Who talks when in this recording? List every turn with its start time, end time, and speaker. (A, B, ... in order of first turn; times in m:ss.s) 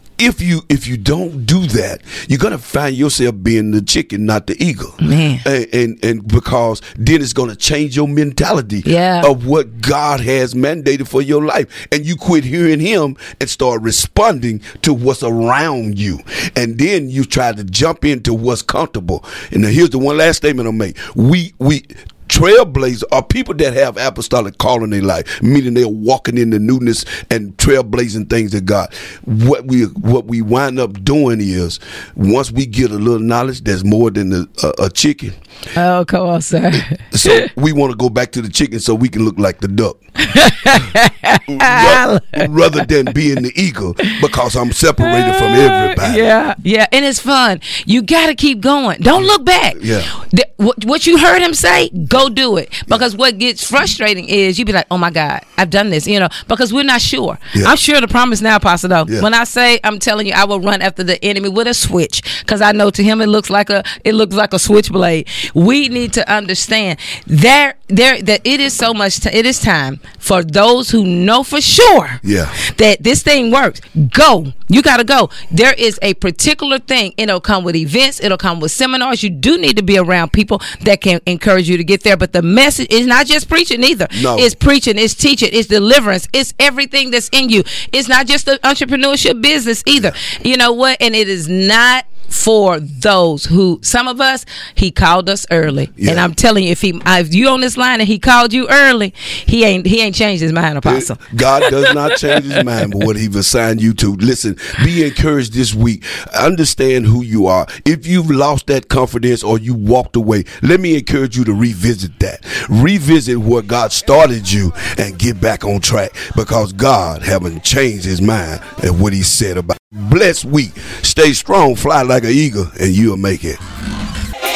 0:00.2-0:35.4 A
0:05.0-0:05.4 B
0:08.8-0:09.3 B
0:35.8-0:37.5 B
0:37.1-0:40.0 A
0:40.2-0:42.5 B
0:41.5-0:46.3 A
0:45.0-1:42.6 B
0:49.8-0:50.1 A
1:12.2-1:12.6 A
1:24.1-1:24.5 A
1:36.0-1:36.2 A
1:40.8-2:03.6 A